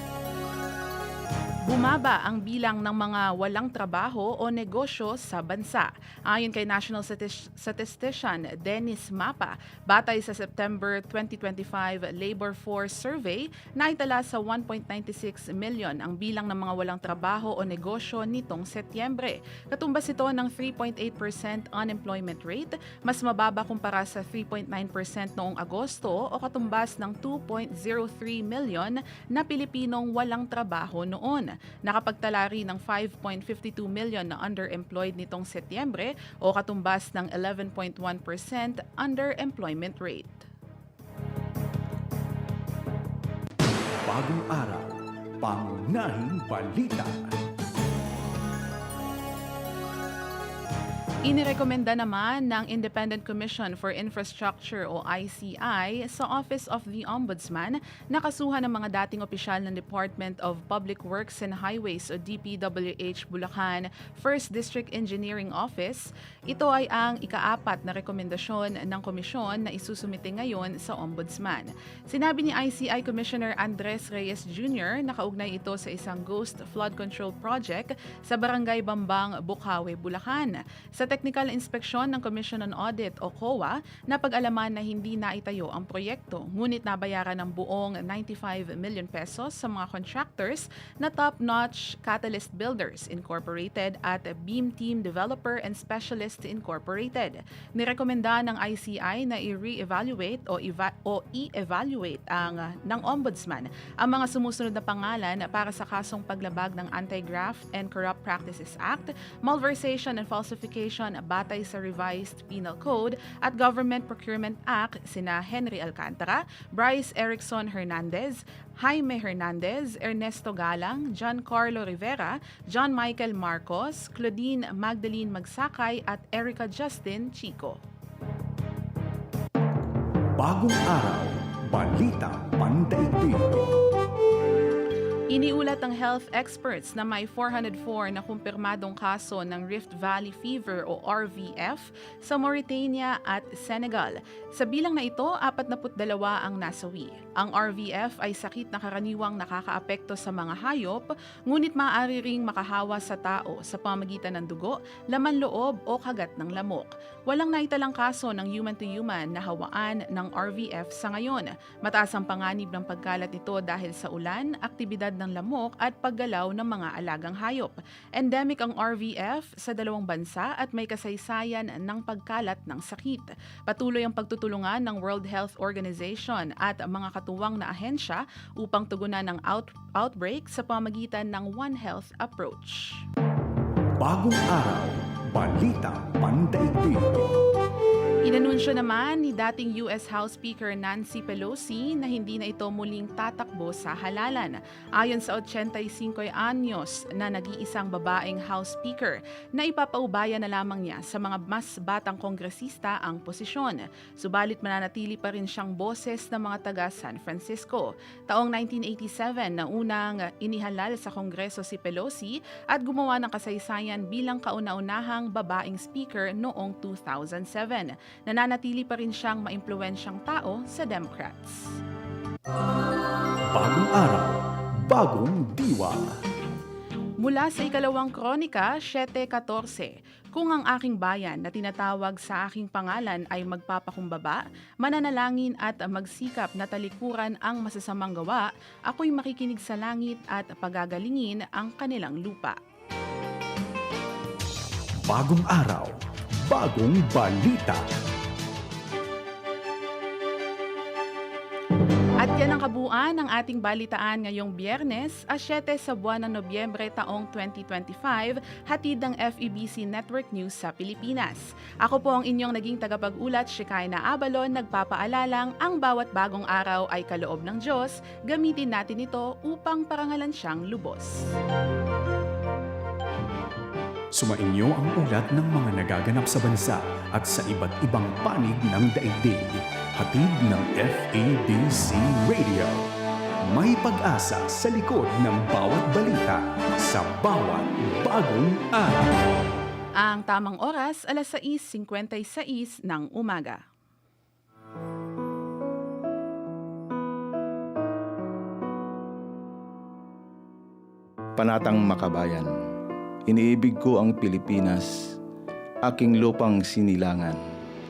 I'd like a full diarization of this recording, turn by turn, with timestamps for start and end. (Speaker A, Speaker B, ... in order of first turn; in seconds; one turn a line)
Speaker A: 1.6-40.5
Speaker B: 44.0-47.4
Speaker A: 51.2-127.8
Speaker B: 130.4-133.7
Speaker A: 135.3-183.0
Speaker B: 184.0-187.3
Speaker A: 188.2-221.7
Speaker B: 223.5-226.1
Speaker A: 227.2-242.6
Speaker B: 245.1-245.9
Speaker B: 246.5-247.8
Speaker A: 252.2-271.3
Speaker B: 274.1-282.8
Speaker B: 283.5-289.1
Speaker A: 290.0-293.6
Speaker C: 301.4-302.5
Speaker C: 303.3-305.1
Speaker C: 305.8-307.4